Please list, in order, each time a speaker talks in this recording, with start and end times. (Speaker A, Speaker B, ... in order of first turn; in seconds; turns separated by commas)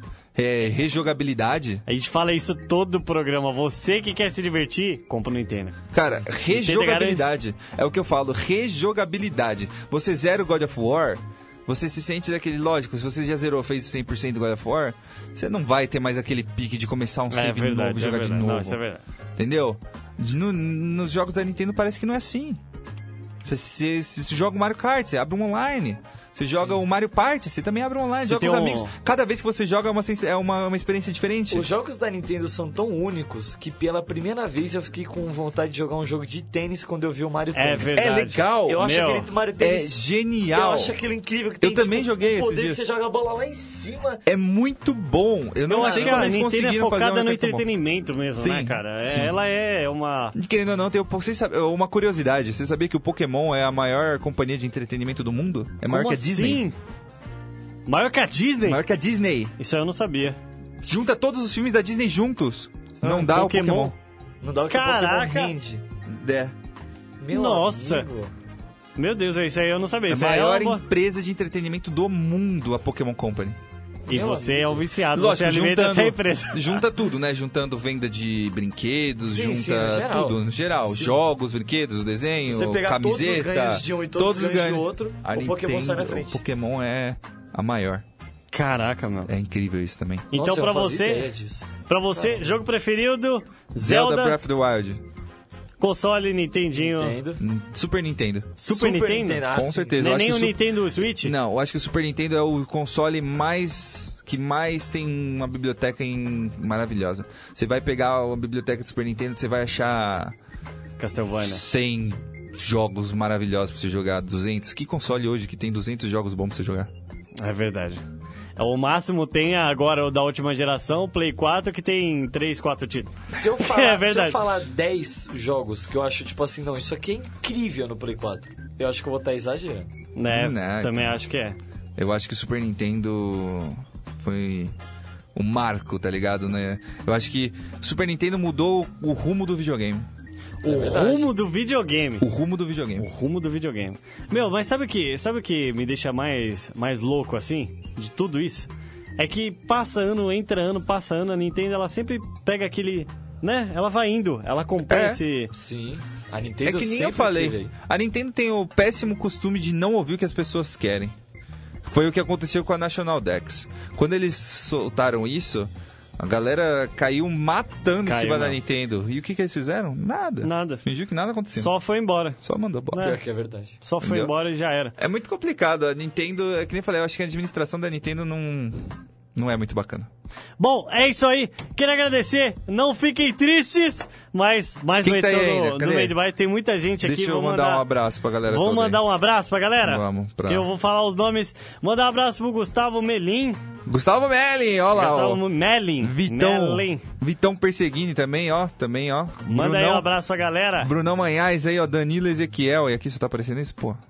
Speaker A: 0.3-1.8, Speaker B: 1.9-5.8, Speaker A: 5.9-18.8, Speaker C: 6.0-6.3, Speaker B: 6.5-7.3, Speaker B: 17.3-19.0, Speaker A: 19.4-22.6, Speaker A: 23.4-31.7, Speaker B: 28.2-28.9, Speaker C: 31.5-40.0, Speaker B: 37.5-39.3, Speaker A: 38.0-38.9, Speaker A: 39.6-41.0, Speaker C: 40.5-44.2, Speaker A: 41.6-42.9, Speaker A: 44.3-47.7, Speaker B: 45.7-50.4, Speaker C: 45.7-46.4, Speaker A: 48.4-49.4, Speaker A: 50.4-56.6, Speaker B: 55.9-56.8, Speaker B: 57.9-58.8, Speaker A: 58.6-59.5, Speaker B: 59.6-60.4, Speaker A: 60.8-64.0, Speaker B: 63.0-64.0, Speaker C: 64.4-65.8, Speaker B: 64.7-65.5, Speaker A: 66.1-66.5, Speaker C: 67.2-68.3, Speaker B: 67.3-68.1, Speaker B: 69.0-70.8, Speaker A: 70.1-73.6, Speaker C: 74.1-74.9, Speaker B: 74.1-76.8, Speaker A: 75.1-88.0, Speaker C: 79.3-81.2, Speaker C: 82.5-86.4, Speaker B: 88.5-89.3, Speaker A: 89.3-90.3, Speaker B: 90.3-91.3, Speaker C: 90.3-91.7, Speaker B: 91.8-94.4, Speaker A: 93.8-95.0, Speaker B: 95.8-97.2, Speaker C: 96.7-97.4, Speaker A: 97.4-98.6, Speaker B: 98.6-99.5, Speaker C: 98.7-100.0, Speaker A: 99.5-110.3, Speaker B: 100.0-101.3, Speaker B: 111.0-111.6, Speaker A: 111.3-116.9, Speaker B: 117.4-118.0, Speaker B: 118.6-124.4, Speaker C: 123.3-129.9, Speaker B: 130.2-131.6, Speaker A: 130.3-131.2, Speaker A: 132.0-134.8, Speaker A: 135.3-140.1, Speaker C: 140.6-141.3, Speaker B: 140.7-142.2, Speaker A: 142.2-143.1, Speaker B: 143.0-155.5, Speaker A: 154.8-155.2, Speaker C: 155.5-157.7, Speaker A: 156.6-161.2, Speaker A: 161.8-171.8, Speaker B: 168.0-168.6, Speaker B: 170.4-170.8, Speaker B: 171.5-172.4, Speaker A: 172.4-173.1, Speaker B: 172.9-173.2, Speaker C: 173.0-173.8, Speaker B: 173.8-174.9, Speaker A: 174.0-174.3, Speaker A: 175.0-180.1, Speaker B: 180.6-187.8, Speaker A: 185.0-186.2, Speaker A: 187.0-189.0, Speaker B: 188.5-193.6, Speaker A: 189.8-190.7, Speaker A: 193.9-200.1, Speaker B: 194.9-197.1, Speaker B: 199.5-200.9, Speaker A: 200.8-204.0